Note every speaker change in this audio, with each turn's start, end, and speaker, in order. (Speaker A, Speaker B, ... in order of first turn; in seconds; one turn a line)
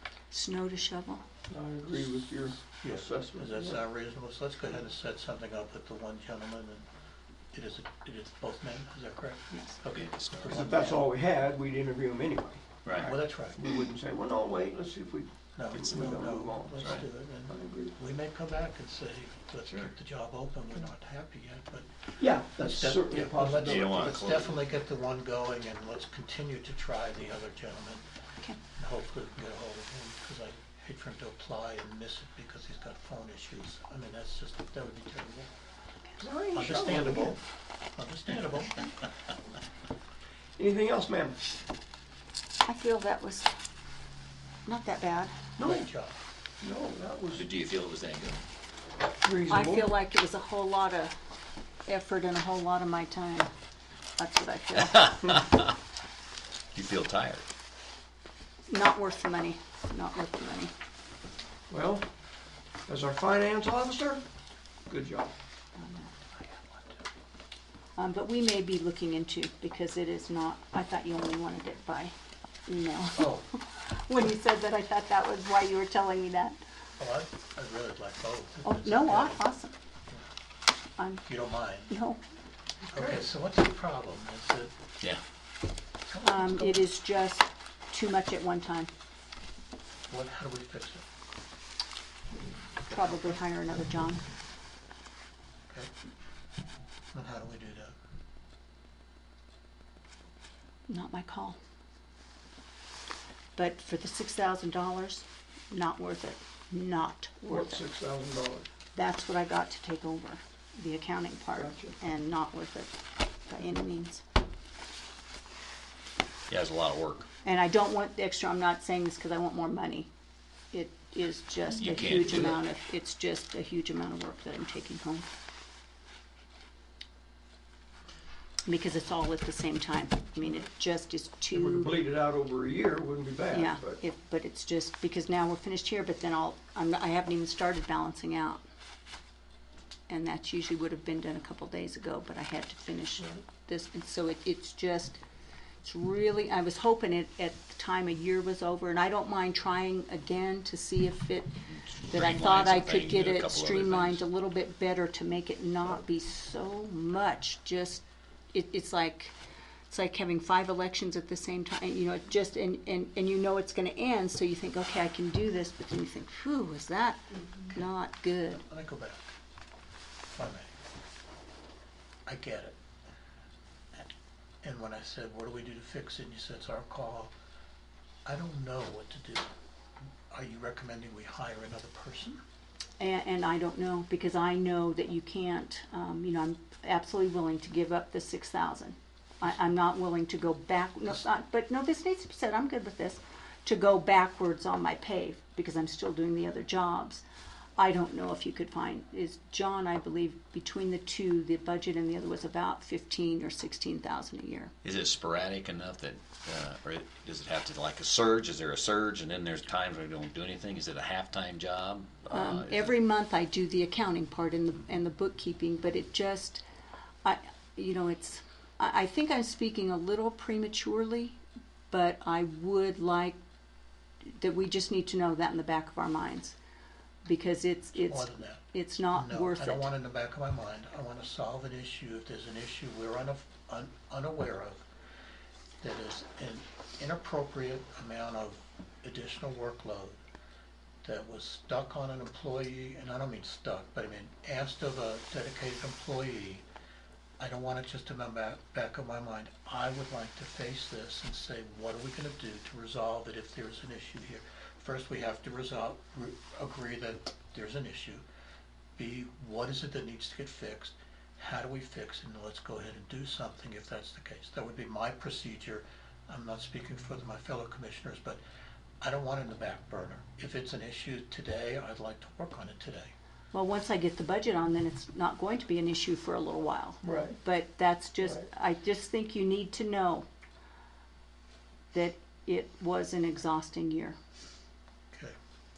Speaker A: 0.3-1.2
Speaker B: 1.5-3.8
Speaker C: 2.8-6.9
Speaker C: 7.5-11.0
Speaker D: 9.9-10.9
Speaker B: 10.5-16.9
Speaker D: 12.8-13.1
Speaker C: 13.0-13.6
Speaker C: 15.6-22.0
Speaker D: 16.8-17.1
Speaker B: 17.5-18.0
Speaker B: 22.2-24.2
Speaker C: 22.6-28.0
Speaker D: 23.5-24.6
Speaker C: 28.8-35.5
Speaker B: 36.2-37.4
Speaker C: 36.5-37.4
Speaker C: 38.0-39.0
Speaker B: 40.6-41.4
Speaker A: 42.6-43.5
Speaker A: 44.7-45.4
Speaker B: 45.6-45.9
Speaker C: 45.6-46.2
Speaker B: 46.6-47.5
Speaker D: 47.3-48.4
Speaker B: 49.2-49.9
Speaker A: 49.5-51.1
Speaker A: 51.9-53.5
Speaker A: 54.2-55.4
Speaker D: 56.7-57.5
Speaker A: 58.7-60.7
Speaker B: 61.7-62.0
Speaker B: 62.9-64.2
Speaker B: 64.9-65.3
Speaker A: 65.8-66.1
Speaker A: 68.0-72.1
Speaker A: 72.7-76.6
Speaker C: 73.2-73.4
Speaker C: 77.0-79.4
Speaker A: 78.7-79.7
Speaker A: 81.0-81.2
Speaker C: 81.3-82.0
Speaker A: 81.9-82.2
Speaker C: 82.9-84.7
Speaker B: 82.9-83.2
Speaker C: 86.1-86.7
Speaker A: 86.2-88.9
Speaker C: 90.1-91.0
Speaker A: 92.9-94.2
Speaker C: 92.9-93.4
Speaker C: 97.1-97.9
Speaker A: 100.9-101.6
Speaker A: 103.6-107.8
Speaker B: 107.5-108.7
Speaker A: 109.0-113.0
Speaker B: 111.6-112.0
Speaker A: 113.5-114.2
Speaker D: 116.5-117.3
Speaker A: 117.4-120.1
Speaker A: 120.7-125.3
Speaker D: 121.8-122.6
Speaker A: 128.7-132.0
Speaker B: 131.5-134.0
Speaker A: 133.5-138.6
Speaker A: 140.1-145.2
Speaker A: 145.8-151.5
Speaker D: 151.7-154.2
Speaker A: 152.1-159.4
Speaker A: 159.9-168.6
Speaker C: 168.5-169.3
Speaker C: 170.3-170.7
Speaker C: 172.3-172.8
Speaker C: 174.6-177.3
Speaker C: 178.2-179.5
Speaker C: 180.3-182.4
Speaker A: 183.0-197.2
Speaker A: 197.8-204.7
Speaker D: 204.8-212.9
Speaker A: 212.3-216.6
Speaker A: 217.2-221.4
Speaker A: 221.9-223.4
Speaker A: 224.4-226.6
Speaker A: 227.2-229.9
Speaker C: 228.0-234.8
Speaker C: 235.8-240.2
Speaker C: 241.0-246.6
Speaker C: 247.4-258.2
Speaker C: 259.0-268.4
Speaker C: 269.0-273.1
Speaker A: 273.5-280.3
Speaker B: 277.0-277.4
Speaker A: 281.9-284.2